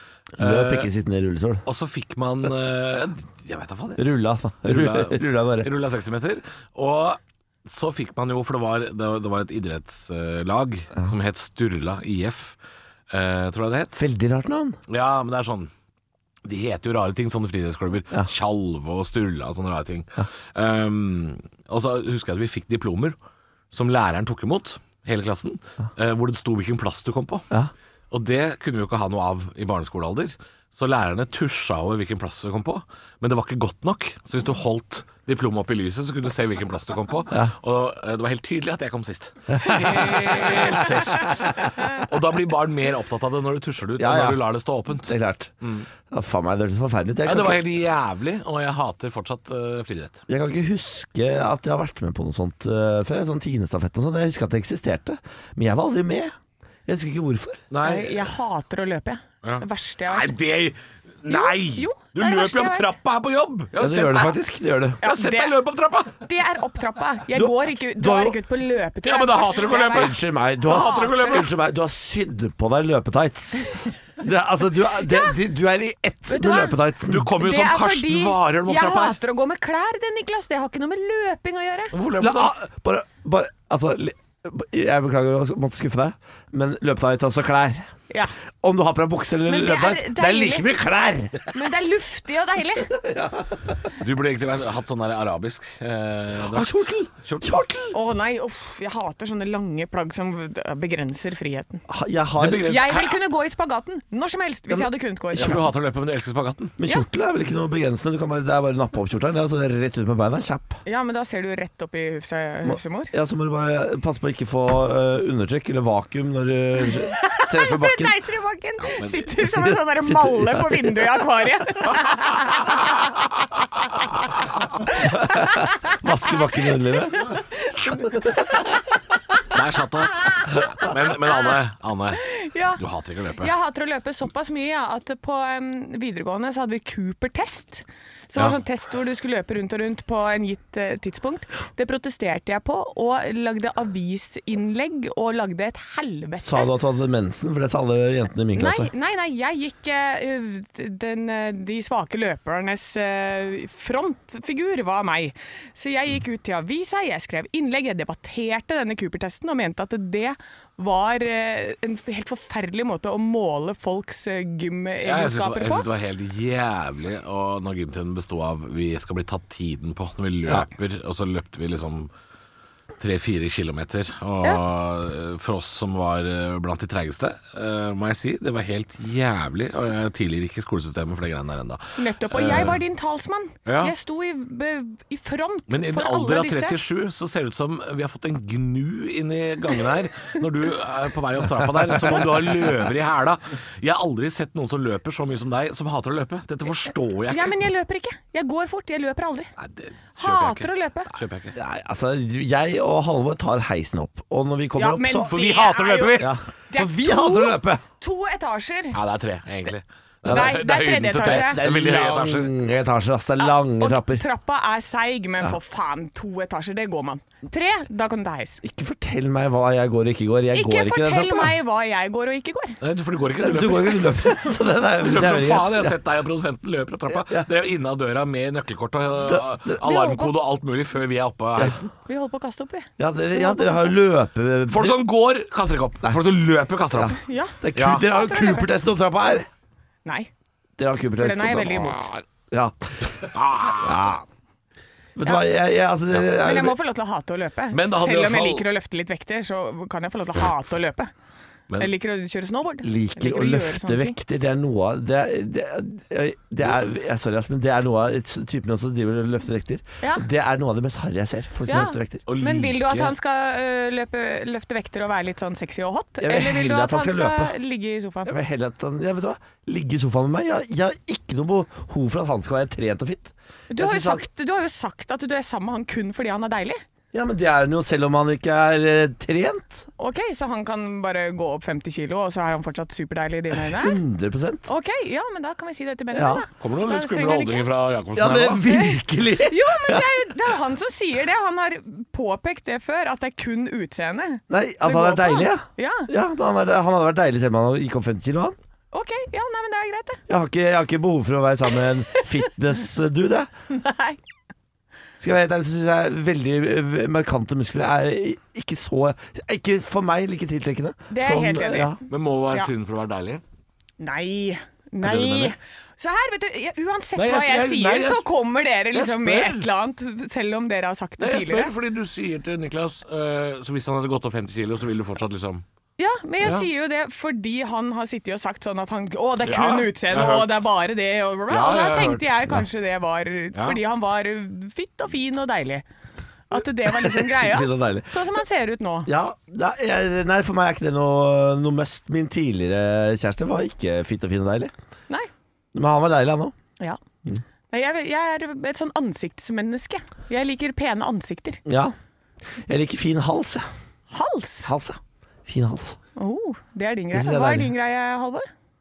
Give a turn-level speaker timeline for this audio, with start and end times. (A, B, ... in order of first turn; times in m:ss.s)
0:00.4-0:00.9 A
0:00.4-0:01.6 B
0:01.7-0:04.0 A
0:04.0-0:05.7 B
0:04.6-0:12.6 A
0:13.1-0:14.0 A
0:14.0-0:14.8 B
0:14.9-0:15.7 A
0:16.4-0:23.2 A
0:23.7-0:27.5 A
0:28.1-0:45.9 A
0:39.5-0:41.2 B
0:44.0-0:44.5 B
0:45.0-0:45.5 B
0:46.1-0:47.6 B
0:47.2-0:50.2 A
0:50.3-0:56.3 B
0:56.9-0:57.6 B
0:57.7-0:58.3 A
0:57.8-1:00.3 C
0:59.4-1:04.4 A
1:01.3-1:03.0 C
1:03.8-1:05.0 B
1:05.0-1:06.2 A
1:05.0-1:05.6 C
1:06.2-1:11.5 C
1:07.3-1:08.4 B
1:09.0-1:11.5 A
1:09.6-1:17.3 B
1:15.0-1:15.4 C
1:16.3-1:16.8 C
1:17.0-1:19.2 A
1:17.4-1:22.0 C
1:21.9-1:22.6 A
1:22.2-1:27.9 B
1:28.6-1:31.5 B
1:29.5-1:30.7 C
1:31.5-1:32.9 C
1:32.9-1:33.7 B
1:34.0-1:37.6 A
1:36.5-1:38.0 B
1:37.9-1:41.8 C
1:41.9-1:42.8 B
1:42.4-1:43.2 A
1:42.5-1:45.7 C
1:44.7-1:45.6 B
1:45.3-1:46.8 A
1:46.8-1:50.8 B
1:50.9-1:53.1 C
1:52.6-1:58.1 B
1:56.8-2:04.0 C
1:58.8-1:59.3 A
1:59.6-2:01.0 B
2:05.0-2:08.4 B
2:05.1-2:08.6 C
2:09.5-2:13.5 A
2:12.2-2:12.8 C
2:13.4-2:26.7 C
2:26.4-2:28.9 B
2:28.6-2:45.9 C
2:45.0-2:52.1 A
2:53.0-3:02.8 A
3:02.0-3:06.8 C
3:03.7-3:04.0 A
3:05.7-3:17.6 A
3:17.3-3:19.5 C
3:19.6-3:21.6 A
3:20.2-3:21.1 C
3:21.6-3:25.3 B
3:24.8-3:29.0 C
3:25.2-3:26.3 A
3:26.2-3:27.8 B
3:28.9-3:32.5 A
3:30.2-3:30.6 B
3:30.3-3:31.6 C
3:31.2-3:34.2 B
3:33.4-3:38.6 C
3:38.6-3:41.6 B
3:40.5-3:42.8 C
3:42.8-3:44.2 A
3:43.4-3:45.9 B
3:45.0-3:51.9 A
3:47.2-3:47.5 B
3:49.3-3:49.8 B
3:49.8-3:50.3 C
3:52.0-3:54.0 C
3:53.0-3:55.0 B
3:54.7-3:57.2 A
3:56.9-3:59.5 B
3:57.2-3:58.7 C
3:57.8-3:58.0 A
4:00.0-4:00.3 C
4:00.8-4:04.2 B
4:01.2-4:02.1 C
4:03.2-4:04.2 A
4:05.2-4:06.8 B
4:06.3-4:11.1 C
4:07.7-4:08.7 A
4:11.8-4:14.2 C
4:12.8-4:22.2 B
4:21.7-4:28.3 C
4:22.3-4:23.1 A
4:26.2-4:27.5 B
4:28.3-4:34.2 B
4:33.7-4:36.8 C
4:37.1-4:39.8 B
4:40.0-4:44.0 C
4:43.7-4:44.7 B
4:44.7-4:47.7 C
4:46.1-4:46.4 B
4:46.6-4:48.6 A
4:48.2-4:50.1 B
4:48.6-4:56.1 C
4:54.5-4:58.6 B
4:58.9-5:00.2 C
5:00.3-5:03.5 B
5:03.7-5:04.2 C
5:05.2-5:12.0 B
5:11.1-5:12.7 C
5:12.1-5:13.4 A
5:14.0-5:21.7 C
5:15.0-5:15.6 A
5:17.2-5:18.2 A
5:18.9-5:19.7 A
5:21.2-5:25.6 A
5:26.0-5:35.8 C
5:26.4-5:26.7 A
5:29.4-5:30.6 A
5:31.5-5:32.4 A
5:36.5-5:39.1 C
5:37.0-5:38.1 B
5:39.1-5:44.7 B
5:45.7-5:46.6 B
5:47.7-5:51.6 C
5:51.7-5:52.0 B
5:52.6-5:53.7 B
5:54.1-5:54.7 C
5:54.6-5:56.0 B
5:56.2-5:58.5 C
5:57.1-5:57.7 B